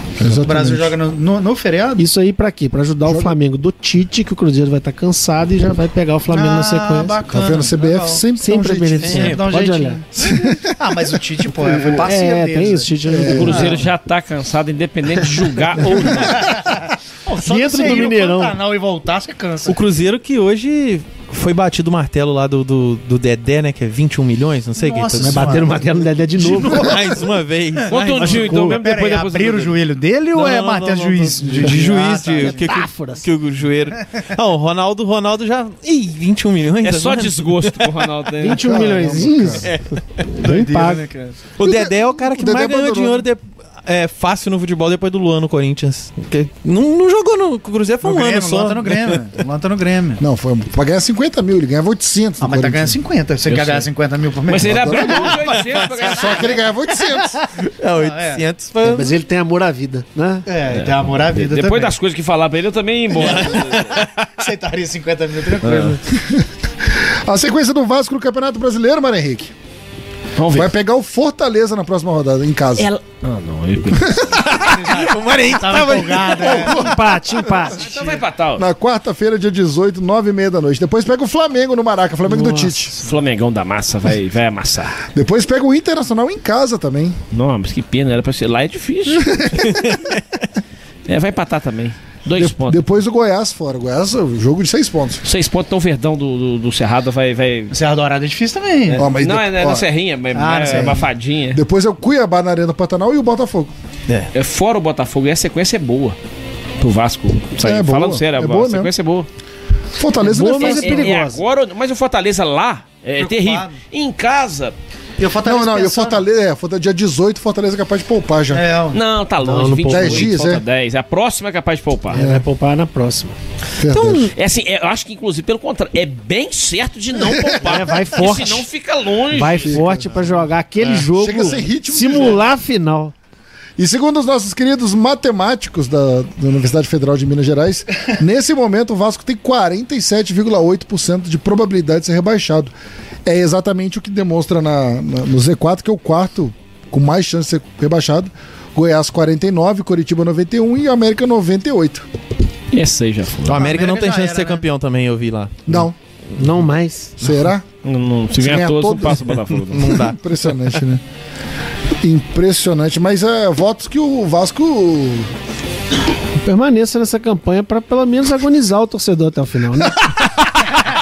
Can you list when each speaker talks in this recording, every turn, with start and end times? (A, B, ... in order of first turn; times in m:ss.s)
0:00.2-0:01.0 A
0:00.3-0:02.0 B
0:02.0-0:07.2 C
0:03.1-0:03.4 A
0:06.3-0:08.2 B
0:07.3-0:09.3 A
0:08.4-0:10.2 C
0:09.0-0:12.9 B
0:09.1-0:09.3 D
0:10.2-0:11.0 A
0:11.6-0:13.8 C
0:13.1-0:13.7 A
0:13.3-0:16.5 E
0:13.4-0:13.8 B
0:15.9-0:16.2 A
0:16.3-0:19.8 B
0:17.4-0:18.5 C
0:19.6-0:25.7 D
0:24.8-0:25.8 B
0:25.2-0:27.0 C
0:26.4-0:28.4 D
0:26.6-0:27.2 B
0:27.9-0:32.7 B
0:27.9-0:29.8 E
0:28.2-0:28.8 C
0:30.3-0:38.0 D
0:31.0-0:31.8 C
0:32.4-0:33.3 C
0:36.8-0:38.6 E
0:38.4-0:39.8 C
0:38.5-0:39.7 A
0:39.6-0:40.0 D
0:40.4-0:41.0 C
0:40.4-0:41.4 B
0:41.6-0:49.2 D
0:41.6-0:43.3 A
0:48.0-0:50.2 B
0:50.2-0:53.0 A
0:52.4-0:56.4 B
0:53.5-0:53.9 E
0:54.4-0:56.6 E
0:54.6-0:55.4 A
0:56.0-0:57.4 A
0:57.7-0:59.1 D
0:58.0-0:58.4 B
0:58.8-1:00.5 C
1:00.4-1:01.9 B
1:00.7-1:04.0 E
1:03.1-1:04.1 D
1:03.2-1:06.0 B
1:06.1-1:09.5 A
1:10.4-1:10.7 E
1:10.5-1:12.9 A
1:12.8-1:14.4 E
1:13.9-1:14.4 A
1:14.4-1:16.7 D
1:14.5-1:16.8 B
1:16.4-1:17.9 A
1:16.5-1:17.8 C
1:17.7-1:18.6 E
1:18.5-1:22.9 A
1:22.3-1:22.8 C
1:23.0-1:25.0 E
1:25.1-1:27.2 A
1:27.3-1:29.8 E
1:29.3-1:29.8 A
1:29.8-1:30.1 D
1:31.1-1:32.8 E
1:32.3-1:35.2 A
1:35.2-1:37.7 E
1:37.7-1:39.0 B
1:38.9-1:41.6 E
1:38.9-1:39.9 A
1:40.3-1:41.1 B
1:41.5-1:43.7 A
1:44.3-1:46.2 E
1:46.8-1:49.3 E
1:47.6-1:48.9 A
1:50.0-1:51.2 A
1:50.2-1:51.4 C
1:50.6-1:54.7 E
1:53.2-1:53.7 B
1:55.2-1:56.2 B
1:55.4-1:58.7 A
1:58.5-1:59.0 B
1:58.9-2:02.2 E
1:59.4-2:00.3 C
1:59.9-2:00.6 A
2:02.1-2:03.3 C
2:02.1-2:02.4 A
2:03.8-2:04.3 A
2:04.3-2:10.0 E
2:07.2-2:07.8 A
2:07.6-2:08.7 C
2:09.3-2:13.1 C
2:09.6-2:10.2 A
2:10.9-2:12.5 A
2:13.8-2:22.7 A
2:23.2-2:32.1 A
2:32.7-2:33.6 E
2:33.4-2:35.7 D
2:33.5-2:34.6 B
2:35.6-2:35.9 A
2:36.4-2:37.2 C
2:37.2-2:37.6 A
2:37.8-2:40.0 E
2:38.3-2:41.0 A
2:39.7-2:40.2 D
2:42.0-2:45.3 A
2:46.4-2:50.3 C